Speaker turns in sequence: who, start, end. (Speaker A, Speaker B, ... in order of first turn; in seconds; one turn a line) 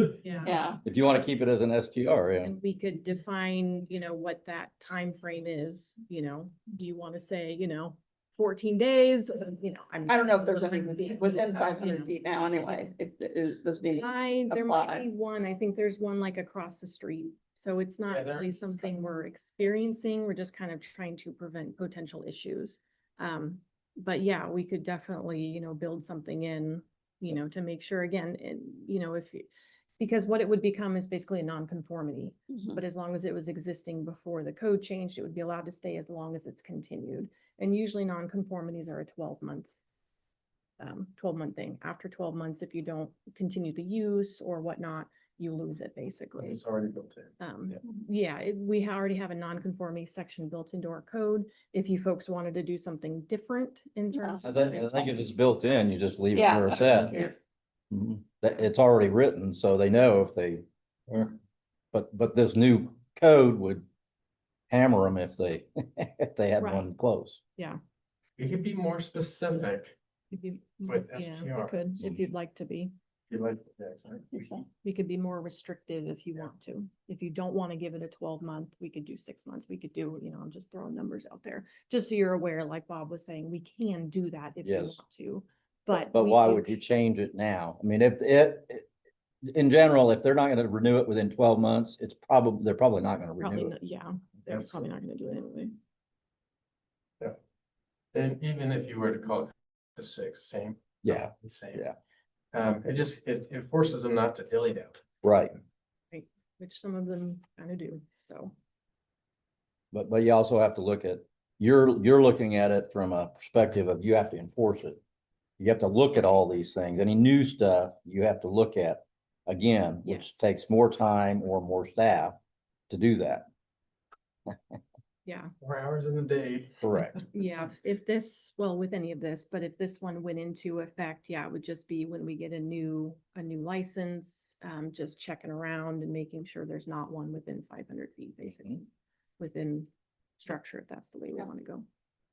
Speaker A: 0.2-0.6
Speaker B: 0.4-0.8
Speaker C: 0.8-2.5
Speaker A: 2.4-12.1
Speaker B: 10.1-15.1
Speaker A: 13.9-29.5
Speaker D: 18.1-18.6
Speaker A: 30.0-39.7
Speaker B: 32.5-32.8
Speaker A: 40.8-46.6
Speaker D: 46.4-47.3
Speaker A: 47.4-55.2
Speaker B: 54.1-54.4
Speaker C: 54.4-57.2
Speaker B: 56.3-57.4
Speaker C: 57.9-60.6
Speaker C: 61.9-63.9
Speaker C: 64.7-67.4
Speaker A: 66.6-66.9
Speaker D: 68.4-70.0
Speaker A: 70.3-72.9
Speaker D: 70.8-71.9
Speaker D: 73.3-74.3
Speaker B: 74.3-74.7
Speaker A: 74.8-86.8
Speaker C: 84.6-85.0
Speaker C: 86.1-88.9
Speaker C: 89.5-93.7
Speaker A: 93.4-95.8
Speaker D: 98.1-101.9
Speaker C: 101.0-102.0
Speaker D: 102.5-105.0
Speaker C: 105.2-105.6
Speaker A: 106.1-108.5
Speaker C: 109.9-115.0
Speaker C: 115.6-122.4
Speaker A: 120.0-120.5
Speaker C: 122.9-123.5
Speaker A: 125.3-125.5
Speaker D: 125.6-126.8
Speaker C: 126.8-127.2
Speaker A: 127.3-138.9
Speaker A: 139.4-139.9
Speaker A: 140.4-141.8